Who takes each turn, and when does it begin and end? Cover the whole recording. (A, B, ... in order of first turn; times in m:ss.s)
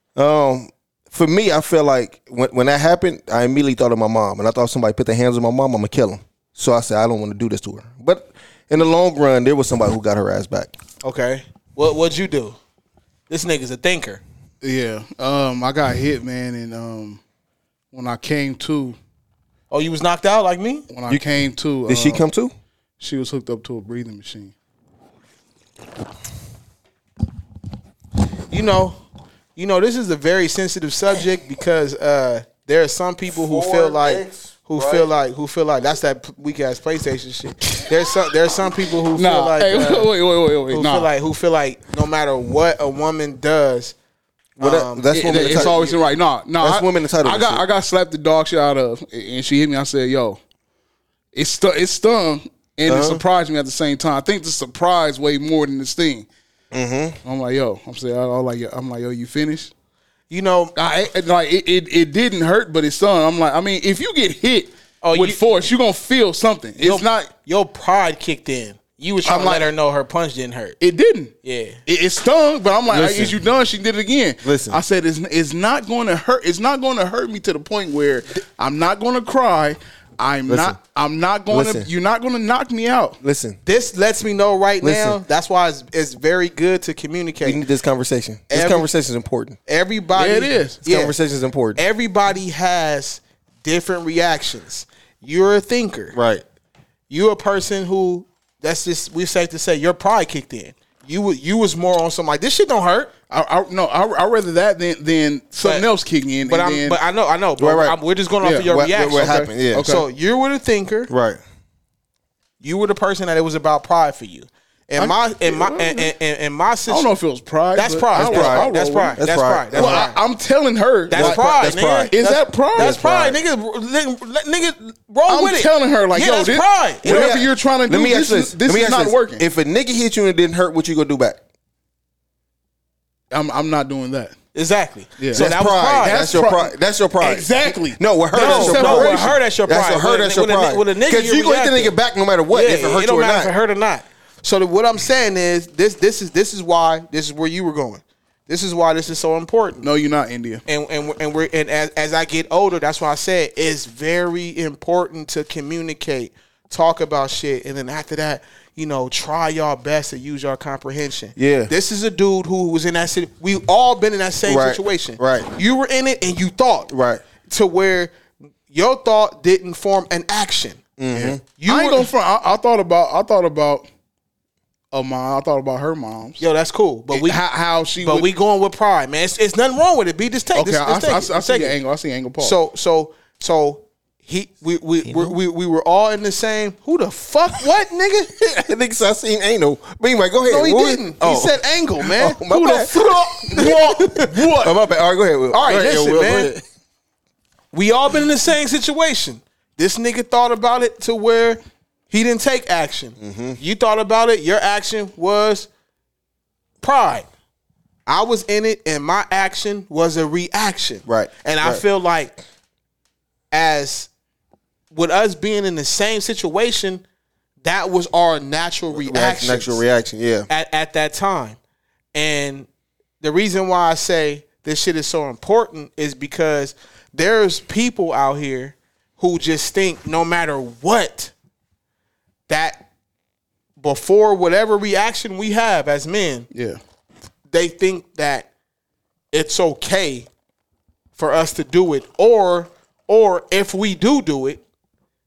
0:00.2-0:10.8 A
0:11.0-0:12.6 B
0:13.3-0:14.2 B
0:14.6-0:17.2 C
0:17.9-0:19.0 C
0:19.7-0:20.9 B
0:20.9-0:22.2 C
0:21.9-0:22.5 A
0:23.0-0:24.5 C
0:28.5-0:29.0 B
0:29.6-0:40.1 B
0:33.4-0:35.1 A
0:39.1-0:41.1 C
0:40.7-0:43.9 B
0:44.6-0:45.9 A
0:44.6-0:46.0 B
0:45.1-0:50.4 C
0:46.6-0:47.6 A
0:51.3-0:56.3 C
0:52.9-0:53.2 A
0:56.7-0:57.2 A
0:57.2-0:59.7 C
1:00.3-1:00.7 B
1:00.8-1:07.3 C
1:05.0-1:05.7 B
1:06.8-1:10.8 B
1:09.2-1:09.7 C
1:10.8-1:11.3 C
1:11.4-1:11.8 B
1:11.8-1:23.2 C
1:12.9-1:13.3 A
1:14.4-1:14.8 A
1:20.5-1:20.8 A
1:21.5-1:21.9 A
1:23.2-1:23.6 A
1:23.6-1:27.6 B
1:24.8-1:25.2 A
1:27.4-1:29.6 A
1:28.5-1:28.9 B
1:29.7-1:31.2 B
1:30.2-1:30.8 C
1:30.8-1:31.8 A
1:31.8-1:36.2 B
1:36.1-1:36.4 A
1:37.1-1:43.1 B
1:43.3-1:47.0 C
1:45.6-1:45.9 B
1:46.4-1:51.1 B
1:47.6-1:48.0 A
1:48.4-1:50.0 C
1:48.6-1:49.9 A
1:51.1-1:51.4 A
1:52.6-1:57.1 B
1:55.0-1:56.1 C
1:56.9-1:59.2 C
1:57.8-2:00.2 B
1:58.2-2:00.0 A
1:59.7-2:01.4 C
2:01.1-2:07.2 B
2:01.2-2:02.1 A
2:02.1-2:03.0 C
2:02.8-2:03.4 A
2:05.3-2:09.4 C
2:07.0-2:11.4 A
2:13.3-2:14.4 C
2:14.5-2:16.2 B
2:15.2-2:19.4 C
2:15.3-2:23.5 A
2:18.3-2:22.0 B
2:22.5-2:29.9 B
2:29.8-2:30.6 C
2:30.7-2:46.9 B
2:41.4-2:41.7 A
2:44.4-2:45.5 A
2:46.9-2:47.2 A
2:47.4-2:48.1 B
2:48.7-2:52.1 B
2:51.0-2:51.4 A
2:51.7-2:53.9 C
2:54.9-2:56.4 C
2:56.4-2:57.4 B
2:57.1-2:58.3 C
2:58.0-3:01.7 B
3:00.5-3:02.6 C
3:02.4-3:08.3 B
3:05.1-3:05.3 A
3:08.5-3:13.8 A
3:10.5-3:12.4 B
3:12.4-3:14.7 C
3:13.4-3:14.6 B
3:14.6-3:16.6 A
3:15.5-3:16.5 B
3:17.7-3:25.7 B
3:23.2-3:23.6 A
3:26.8-3:27.3 B
3:28.1-3:32.3 B
3:31.0-3:31.8 A
3:33.5-3:34.1 B
3:34.9-3:37.0 B
3:37.6-3:39.8 B
3:39.0-3:40.5 A
3:40.5-3:41.6 B
3:42.1-3:42.7 B
3:43.2-3:51.3 B
3:52.5-3:52.9 B
3:53.8-3:56.5 B
3:56.5-3:56.8 C
3:57.5-3:58.5 B
3:59.3-4:00.3 B
4:01.2-4:04.6 B